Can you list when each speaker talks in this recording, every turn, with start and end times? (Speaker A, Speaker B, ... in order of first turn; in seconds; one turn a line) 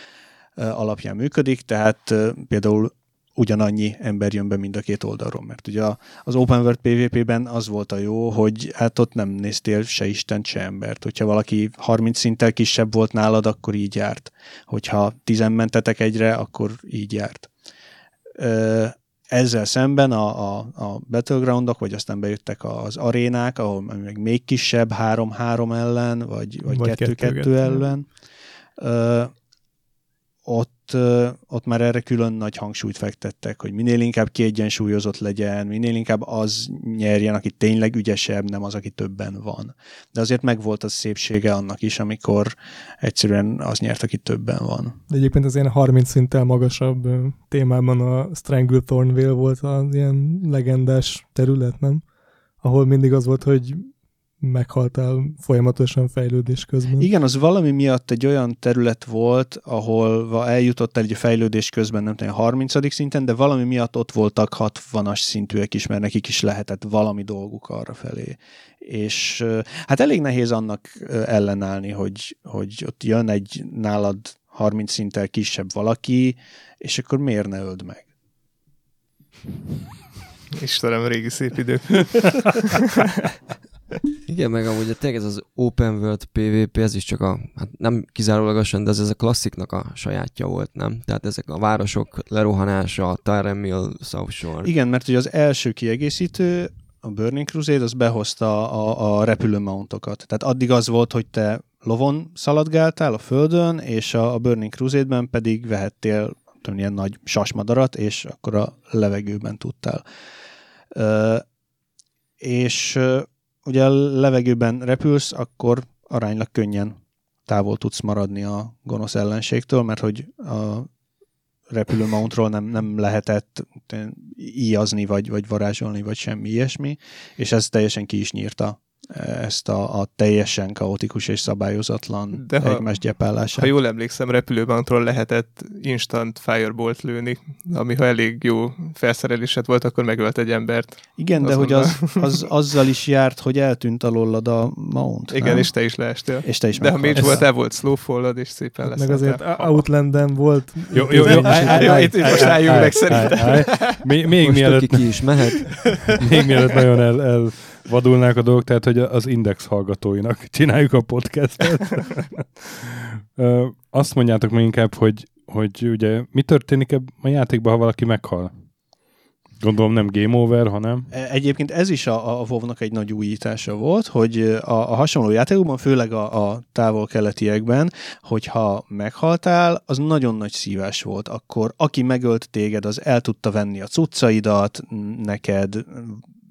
Speaker A: 0.6-17.5
Speaker A: 18.4-28.1
Speaker B: 26.7-27.9
Speaker A: 28.8-29.3
Speaker A: 30.4-45.0
Speaker B: 45.1-52.0
Speaker B: 52.6-57.1
Speaker A: 57.0-78.1
Speaker C: 80.5-83.2
Speaker D: 84.3-94.7
Speaker A: 94.6-110.0
Speaker A: 110.9-111.4
Speaker A: 112.4-120.9
Speaker A: 121.7-133.7
Speaker C: 132.4-132.9
Speaker C: 133.5-142.4
Speaker A: 141.2-145.7
Speaker C: 145.3-149.8
Speaker A: 146.4-147.5
Speaker B: 149.0-152.7
Speaker E: 150.9-168.5
Speaker C: 151.1-154.1
Speaker D: 154.4-156.2
Speaker E: 169.6-171.1
Speaker A: 171.1-186.2